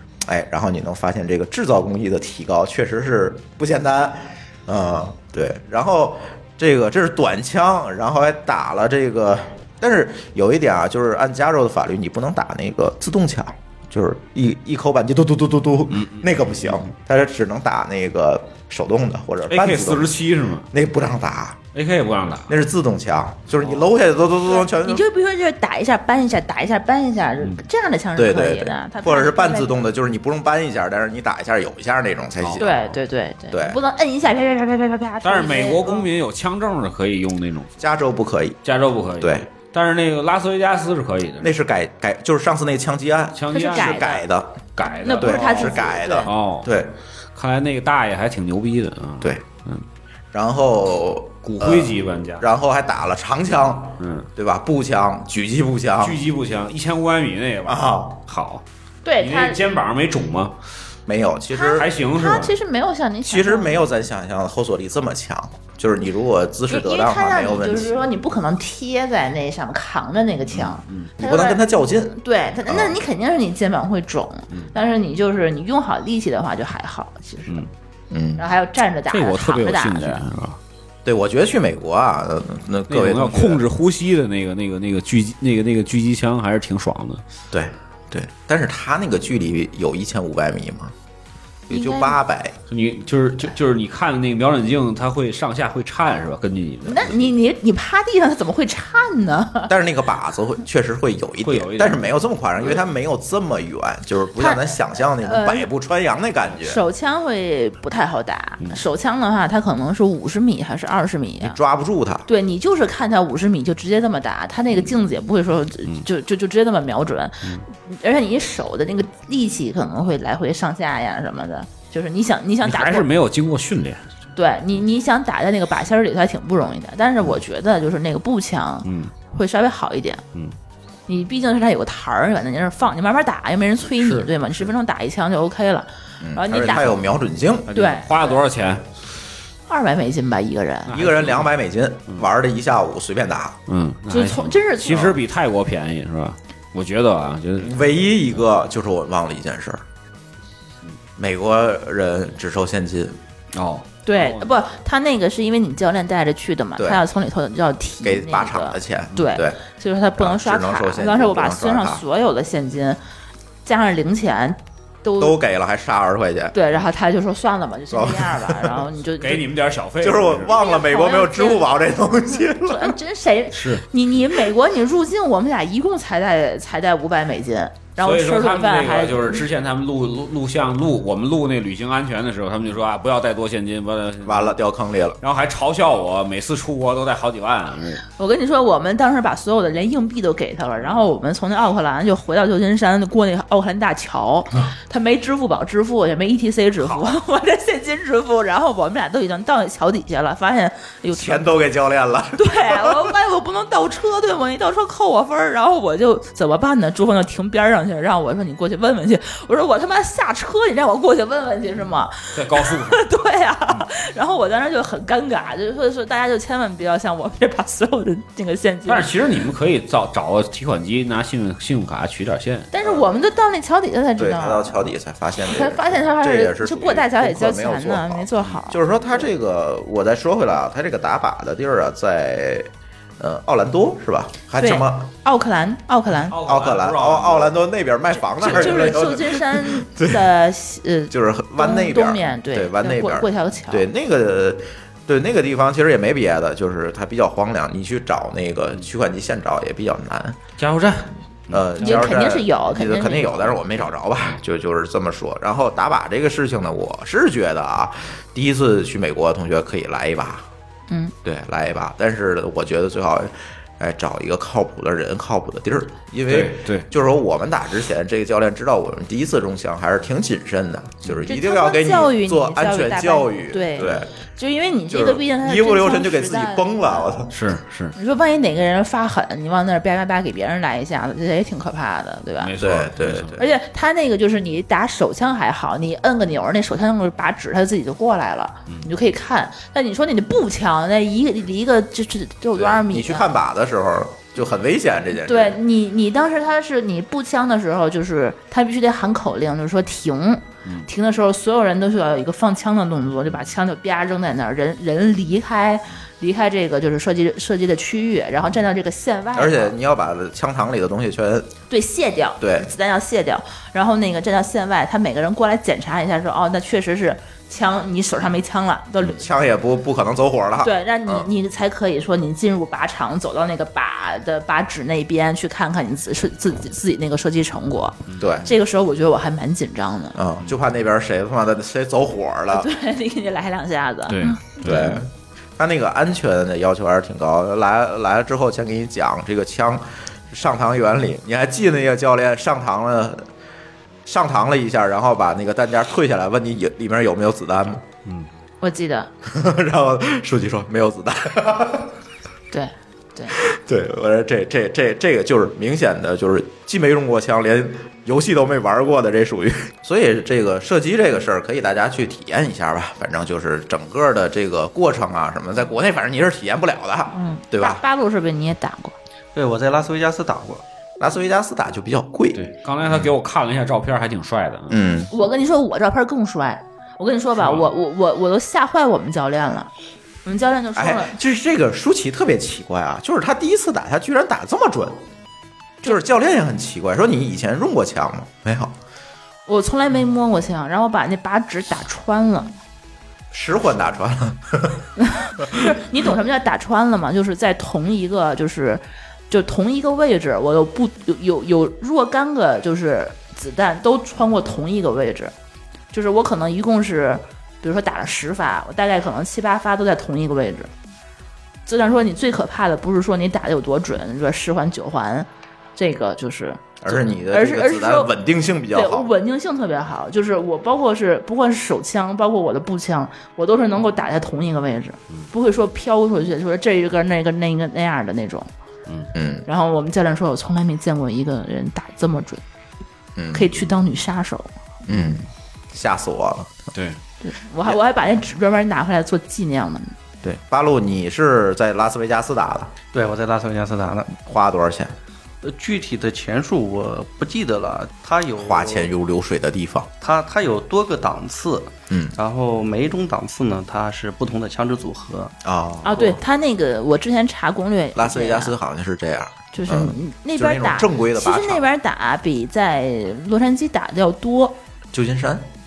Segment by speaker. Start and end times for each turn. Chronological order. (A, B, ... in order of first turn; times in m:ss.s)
0:00.2-0:20.2 A
0:15.9-0:16.9 B
0:19.5-0:20.7 B
0:20.7-0:21.7 A
0:21.7-0:22.5 B
0:22.5-0:25.0 A
0:23.6-0:23.9 B
0:24.4-0:29.8 C
0:28.2-0:32.8 A
0:32.4-0:32.7 B
0:32.6-0:36.0 C
0:33.5-0:33.8 A
0:35.2-0:37.7 B
0:37.8-0:38.6 A
0:38.6-0:41.5 B
0:39.2-0:39.4 A
0:41.4-0:44.6 A
0:43.3-0:44.1 B
0:43.5-0:44.2 C
0:44.8-0:46.7 B
0:45.0-0:46.3 C
0:45.2-0:46.9 A
0:47.3-0:49.8 B
0:50.3-0:56.2 A
0:51.4-0:52.5 B
0:54.0-0:54.3 B
0:56.0-0:58.6 B
0:57.6-0:58.2 A
0:59.0-0:59.6 C
0:59.2-1:00.6 B
1:01.1-1:01.9 A
1:01.5-1:03.8 C
1:01.7-1:02.5 B
1:03.3-1:08.0 A
1:06.7-1:17.6 C
1:10.6-1:11.1 B
1:11.2-1:13.0 A
1:18.1-1:18.4 A
1:18.4-1:20.2 C
1:19.1-1:20.6 B
1:21.0-1:23.6 A
1:22.9-1:27.2 B
1:27.5-1:30.9 A
1:31.7-1:32.6 A
1:31.7-1:32.2 C
1:32.7-1:37.3 B
1:36.8-1:39.7 C
1:39.7-1:46.8 A
1:41.4-1:42.8 B
1:44.4-1:45.7 C
1:46.6-1:51.6 C
1:51.4-1:52.3 A
1:52.3-2:03.1 C
2:02.6-2:04.1 B
2:04.3-2:10.2 C
2:08.8-2:09.1 B
2:11.1-2:17.0 C
2:14.0-2:14.3 B
2:16.2-2:17.7 A
2:17.7-2:18.9 B
2:17.7-2:18.4 C
2:19.7-2:21.0 C
2:20.9-2:21.5 B
2:20.9-2:23.6 A
2:23.7-2:28.4 B
2:24.1-2:25.2 C
2:27.6-2:29.8 A
2:31.2-2:33.2 A
2:33.5-2:34.6 B
2:34.0-2:43.0 C
2:36.8-2:37.0 A
2:38.0-2:39.6 A
2:40.2-2:42.0 A
2:43.6-2:45.4 C
2:45.2-2:46.6 A
2:46.5-2:49.4 C
2:47.9-2:48.8 A
2:49.2-2:50.6 B
2:50.0-2:53.0 A
2:50.5-2:51.7 C
2:52.4-2:59.4 C
2:53.5-2:53.8 B
2:58.0-3:04.6 B
3:04.2-3:05.2 A
3:05.2-3:08.0 B
3:08.2-3:21.5 C
3:21.1-3:23.1 A
3:22.3-3:39.1 C
3:32.3-3:33.0 B
3:38.8-3:42.7 B
3:42.7-3:44.9 C
3:44.2-3:55.1 A
3:45.4-3:49.3 C
3:54.6-3:56.4 C
3:56.3-3:57.5 B
3:56.4-4:00.3 A
3:58.4-4:03.9 C
4:01.1-4:10.4 A
4:10.6-4:11.8 B
4:11.5-4:20.5 A
4:11.8-4:13.9 C
4:21.2-4:34.1 A
4:26.3-4:26.9 B
4:31.2-4:37.1 C
4:34.9-4:37.3 A
4:37.3-4:37.9 B
4:38.0-4:42.5 C
4:42.4-4:43.4 B
4:42.6-4:43.5 A
4:43.4-4:53.3 C
4:52.6-4:55.6 A
4:55.1-5:09.7 C
5:09.3-5:11.5 A
5:11.7-5:19.3 C
5:12.4-5:12.7 A
5:19.0-5:21.3 A
5:20.6-5:30.2 C
5:28.1-5:28.4 B
5:28.2-5:28.5 A
5:30.1-5:32.7 A
5:32.5-5:34.7 C
5:34.1-5:35.0 B
5:34.6-5:43.3 A
5:44.0-5:47.8 A
5:48.6-5:49.1 C
5:49.2-5:51.9 A
5:52.5-5:53.4 C
5:53.3-6:07.8 A
6:07.1-6:09.0 C
6:09.3-6:10.6 D
6:11.0-6:13.1 A
6:12.3-6:14.8 B
6:14.7-6:15.1 A
6:15.1-6:19.7 C
6:17.4-6:17.7 B
6:20.2-6:21.1 C
6:20.7-6:25.0 A
6:25.8-6:28.7 A
6:29.5-6:32.5 C
6:33.3-6:34.8 A
6:35.0-6:45.3 C
6:35.4-6:35.7 A
6:45.9-6:50.7 C
6:51.6-6:58.1 C
6:56.8-6:59.1 A
6:58.7-7:08.5 C
7:09.1-7:09.5 A
7:09.5-7:12.4 C
7:13.2-7:13.6 A
7:13.3-7:14.5 C
7:14.8-7:16.5 A
7:16.7-7:17.0 B
7:17.2-7:19.9 C
7:20.2-7:22.7 A
7:22.9-7:24.1 D
7:24.2-7:24.9 A
7:25.4-7:28.9 D
7:28.4-7:29.9 A
7:30.0-7:35.3 D
7:31.9-7:32.2 A
7:35.4-7:36.2 A
7:35.8-7:38.5 C
7:37.9-7:41.6 A
7:39.5-7:44.6 C
7:44.9-7:45.5 A